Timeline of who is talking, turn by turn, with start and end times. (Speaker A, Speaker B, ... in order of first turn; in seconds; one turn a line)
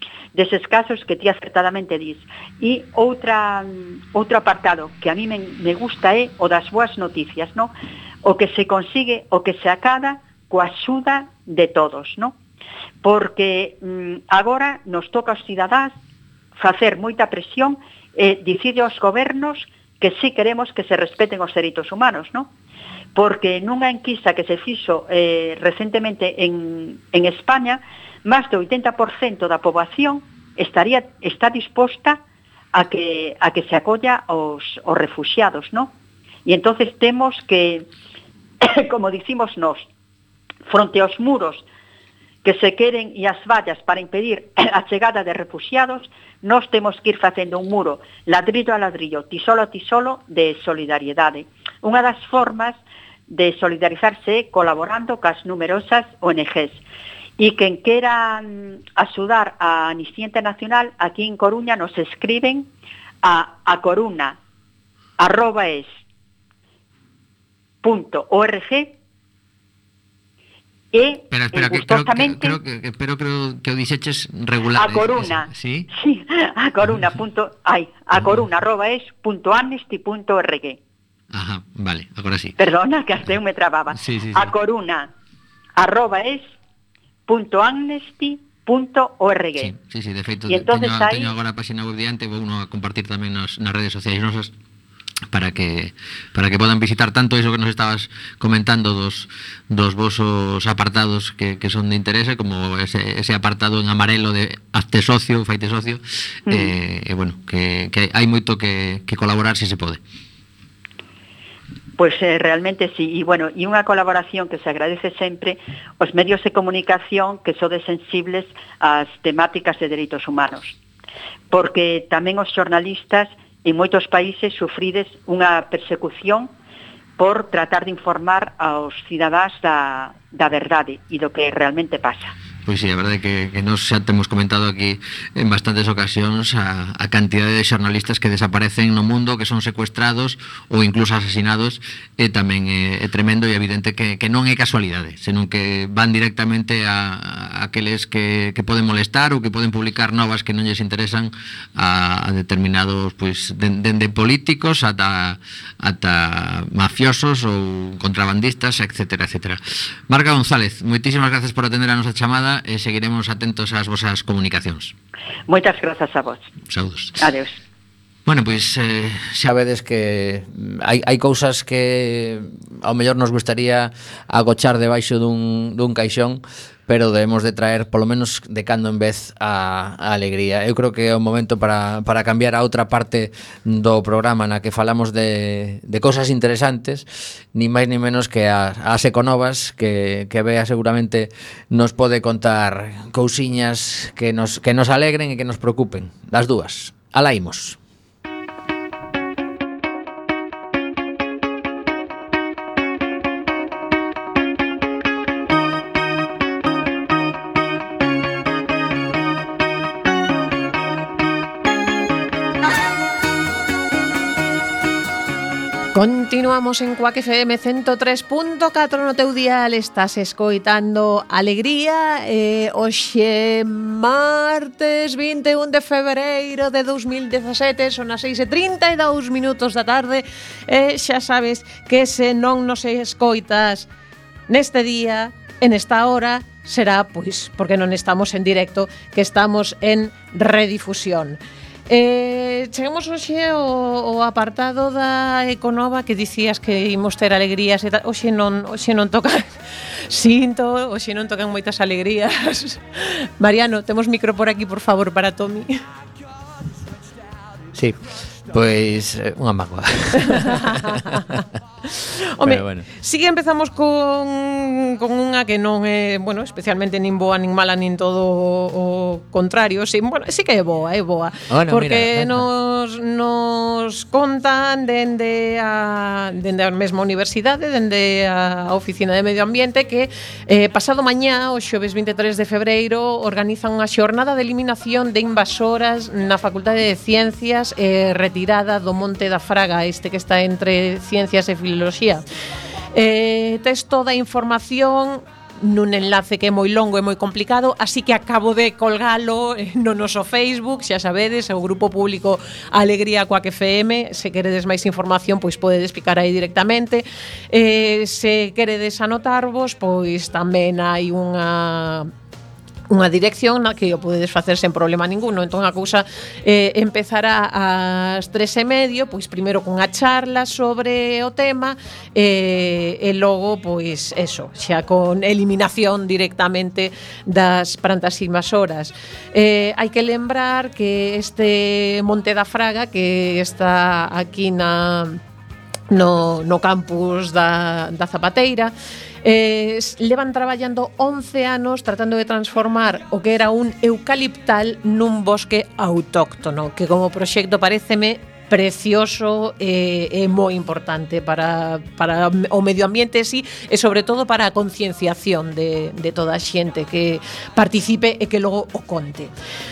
Speaker A: 0.3-7.7
Speaker A: 8.2-12.4
Speaker A: 13.0-15.9
Speaker A: 16.6-22.5
Speaker A: 23.1-32.2
Speaker A: 32.7-35.9
Speaker A: 36.5-37.9
Speaker A: 38.6-39.9
Speaker A: 40.7-41.6
Speaker A: 42.4-56.8
Speaker A: 57.4-62.7
Speaker A: 63.2-64.4
Speaker A: 65.2-65.9
Speaker A: 67.8-68.9
Speaker A: 70.9-72.6
Speaker B: 71.3-75.9
Speaker A: 74.7-80.8
Speaker B: 78.1-78.4
Speaker B: 81.3-82.5
Speaker A: 82.6-85.1
Speaker B: 83.9-84.5
Speaker A: 85.8-86.5
Speaker A: 87.3-89.7
Speaker B: 89.6-94.5
Speaker A: 90.5-91.3
Speaker B: 95.3-110.0
Speaker A: 106.5-106.7
Speaker A: 112.0-120.8
Speaker A: 121.5-126.5
Speaker A: 127.2-132.3
Speaker B: 132.7-164.9
Speaker A: 165.5-166.5
Speaker B: 166.7-167.2
Speaker A: 167.2-167.6
Speaker B: 168.2-197.8
Speaker C: 215.9-233.9
Speaker C: 234.5-255.8
Speaker B: 257.7-258.0
Speaker B: 258.5-261.4
Speaker C: 262.3-292.2
Speaker B: 262.4-262.9
Speaker B: 271.5-272.5
Speaker C: 292.9-312.1
Speaker C: 312.9-335.2
Speaker C: 335.9-359.3